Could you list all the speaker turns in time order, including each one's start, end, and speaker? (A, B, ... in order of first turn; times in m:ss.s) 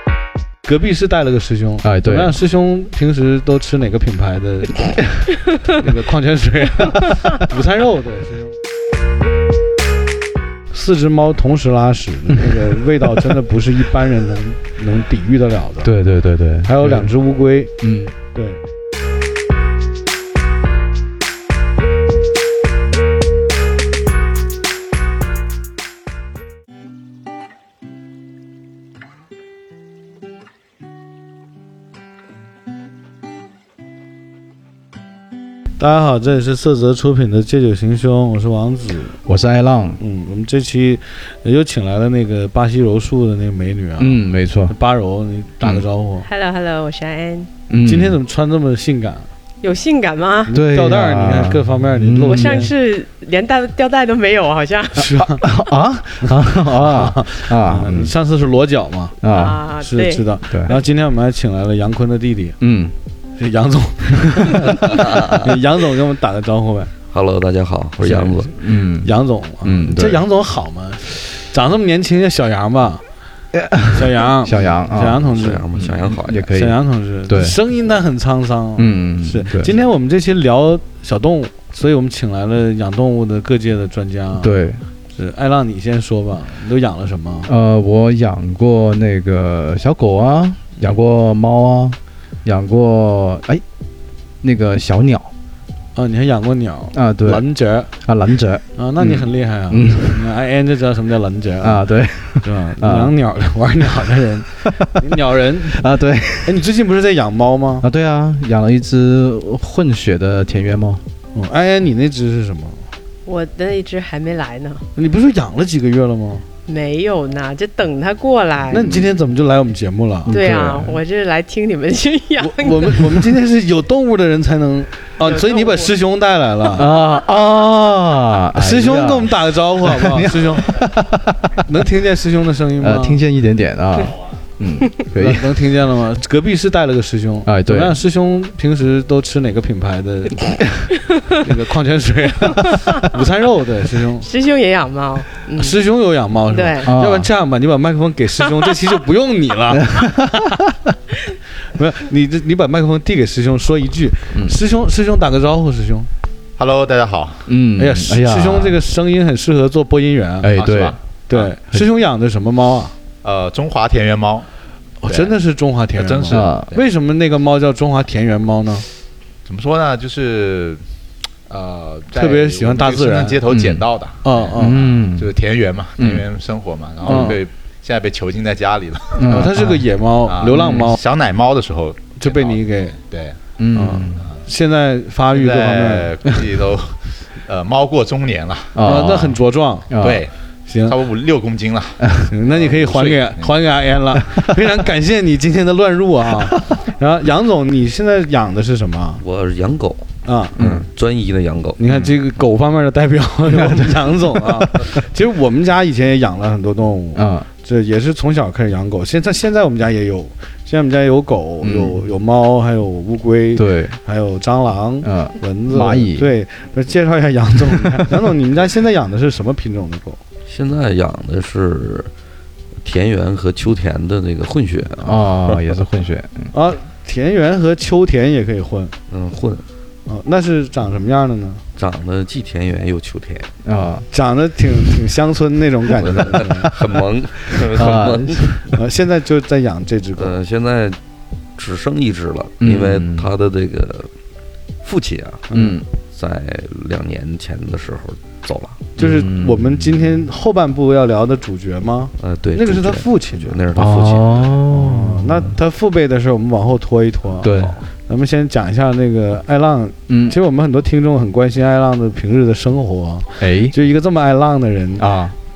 0:00.7-0:05.1 A
0:01.8-0:02.4 B
0:05.7-0:08.5 A
0:10.7-0:15.9 A
0:12.4-0:13.2 B
0:15.8-0:17.1 B
0:16.6-0:17.8 A
0:17.8-0:18.1 B
0:18.3-0:18.6 A
0:35.8-0:39.2 A
0:39.2-0:40.0 B
0:40.0-0:46.3 A
0:44.0-0:44.7 B
0:46.2-0:47.5 C
0:47.7-0:48.2 B
0:47.8-0:49.3 A
0:49.6-0:50.5 C
0:50.5-0:52.7 A
0:50.5-0:52.7 B
0:52.3-0:55.1 C
0:55.0-0:55.4 A
0:55.2-0:58.1 B
0:56.2-0:59.2 A
0:59.2-0:59.6 B
0:59.3-1:00.3 C
0:59.8-1:02.6 A
1:00.5-1:00.8 B
1:02.6-1:03.0 B
1:03.4-1:06.9 A
1:07.1-1:08.5 D
1:08.0-1:08.5 A
1:08.6-1:09.1 B
1:09.0-1:13.0 A
1:09.6-1:10.2 B
1:13.5-1:17.6 B
1:13.9-1:15.7 A
1:15.3-1:16.5 D
1:16.5-1:24.5 A
1:18.8-1:19.8 B
1:24.4-1:24.8 B
1:25.1-1:27.5 A
1:27.5-1:33.6 B
1:34.4-1:35.3 B
1:36.0-1:37.9 A
1:36.9-1:37.4 B
1:38.0-1:40.3 B
1:38.8-1:41.9 A
1:41.6-1:43.1 B
1:42.4-1:45.8 A
1:44.8-1:46.6 B
1:46.4-1:47.8 A
1:47.8-1:51.0 B
1:51.3-1:52.8 A
1:53.3-1:54.8 C
1:55.0-1:56.5 A
1:56.7-1:59.1 C
1:58.7-2:00.4 A
2:00.3-2:01.0 B
2:00.3-2:03.3 C
2:02.4-2:06.9 A
2:05.2-2:05.9 C
2:06.7-2:11.7 B
2:08.6-2:10.8 A
2:11.6-2:13.2 A
2:12.8-2:15.6 B
2:15.1-2:24.3 A
2:17.4-2:18.0 B
2:21.1-2:21.4 C
2:22.7-2:23.1 C
2:24.2-2:25.8 C
2:25.6-2:30.6 A
2:26.5-2:26.9 C
2:26.8-2:27.3 B
2:29.8-2:30.4 B
2:31.8-2:36.1 A
2:36.6-2:37.5 E
2:37.5-2:38.8 B
2:37.8-2:40.5 A
2:40.4-2:41.0 B
2:40.5-2:41.5 E
2:41.3-2:43.0 A
2:43.2-2:44.5 E
2:45.0-2:48.9 A
2:45.1-2:45.3 E
2:46.0-2:46.8 E
2:46.3-2:46.7 B
2:49.4-2:50.8 E
2:51.5-2:59.5 E
2:52.1-2:53.4 A
2:53.5-2:53.8 B
2:54.2-2:55.0 A
2:54.6-2:55.4 B
2:56.0-2:56.3 B
2:57.0-2:57.4 B
2:57.1-2:57.4 A
2:59.2-2:59.9 B
2:59.2-3:01.0 A
3:00.3-3:03.4 E
3:00.5-3:00.9 B
3:02.2-3:03.0 A
3:03.6-3:04.3 B
3:03.8-3:06.2 A
3:05.3-3:08.8 E
3:08.8-3:10.3 B
3:08.8-3:10.0 A
3:10.0-3:10.3 E
3:10.7-3:11.0 A
3:10.8-3:13.5 E
3:12.3-3:19.2 A
3:19.2-3:21.8 D
3:20.2-3:20.6 A
3:20.6-3:20.9 B
3:21.8-3:40.2 A
3:23.5-3:24.7 B
3:27.2-3:27.5 B
3:33.6-3:34.0 B
3:35.0-3:36.3 B
3:37.8-3:38.1 B
3:40.5-3:42.1 D
3:42.8-3:45.6 D
3:45.0-3:46.5 B
3:46.5-3:48.9 A
3:49.1-3:49.6 D
3:50.1-3:51.6 A
3:51.8-3:53.5 D
3:53.6-3:54.1 B
3:54.1-3:56.8 A
3:56.0-3:58.5 D
3:57.7-3:58.6 B
3:58.7-4:00.4 A
4:00.2-4:01.0 D
4:01.6-4:04.1 D
4:02.6-4:03.3 B
4:04.8-4:09.3 D
4:05.5-4:05.8 A
4:05.6-4:05.8 B
4:09.0-4:13.6 A
4:09.0-4:10.1 B
4:12.2-4:14.5 D
4:13.7-4:15.5 B
4:14.7-4:17.5 A
4:17.4-4:17.8 B
4:17.4-4:17.8 D
4:18.1-4:25.1 A
4:20.1-4:20.4 B
4:23.4-4:23.8 B
4:25.0-4:25.4 B